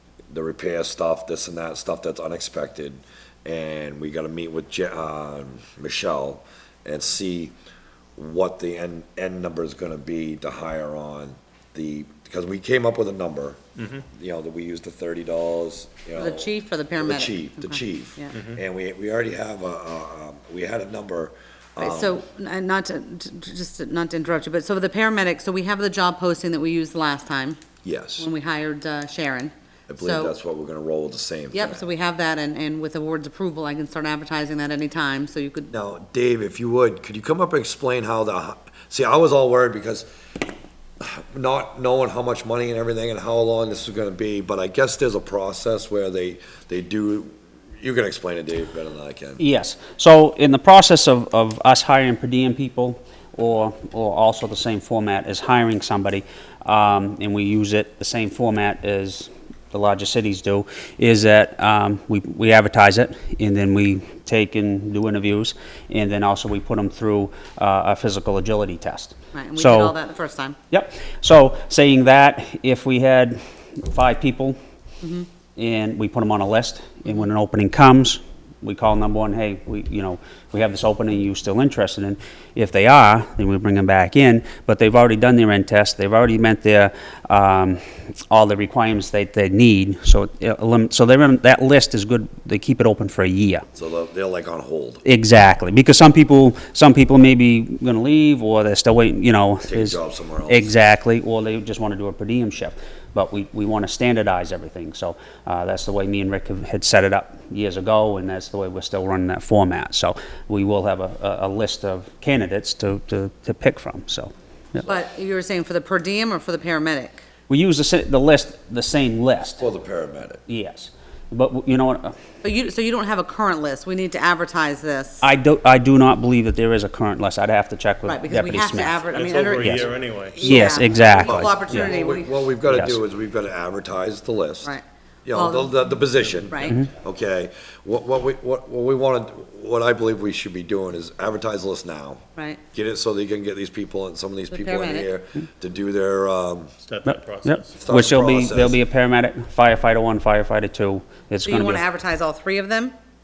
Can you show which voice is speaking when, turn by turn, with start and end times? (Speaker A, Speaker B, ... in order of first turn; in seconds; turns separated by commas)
Speaker A: 0.3-7.5, Speaker A: 8.2-22.2, Speaker B: 13.8-14.1, Speaker C: 16.2-18.3, Speaker B: 18.3-18.6, Speaker C: 21.8-27.6, Speaker A: 27.8-28.3, Speaker C: 28.2-30.3, Speaker A: 29.9-31.9, Speaker C: 31.5-35.7, Speaker A: 35.7-40.1, Speaker A: 41.0-49.4, Speaker D: 49.4-69.9, Speaker C: 69.3-70.6, Speaker D: 70.7-74.6, Speaker C: 75.0-75.3, Speaker D: 75.6-87.8, Speaker D: 88.3-93.7, Speaker A: 93.8-95.0, Speaker D: 95.0-114.8, Speaker A: 99.7-100.7, Speaker C: 114.8-117.2, Speaker D: 117.5-119.7, Speaker A: 119.6-120.4, Speaker D: 120.5-122.2, Speaker C: 122.4-125.3, Speaker D: 125.2-129.0, Speaker C: 128.1-132.4, Speaker B: 129.1-130.6, Speaker D: 129.6-132.0, Speaker A: 131.2-134.7, Speaker D: 132.7-133.0, Speaker C: 134.6-135.8, Speaker A: 135.2-142.2, Speaker C: 136.5-136.8, Speaker A: 142.7-146.7, Speaker C: 144.5-145.1, Speaker B: 146.8-147.8, Speaker D: 147.1-151.8, Speaker A: 147.8-148.8, Speaker C: 151.4-152.9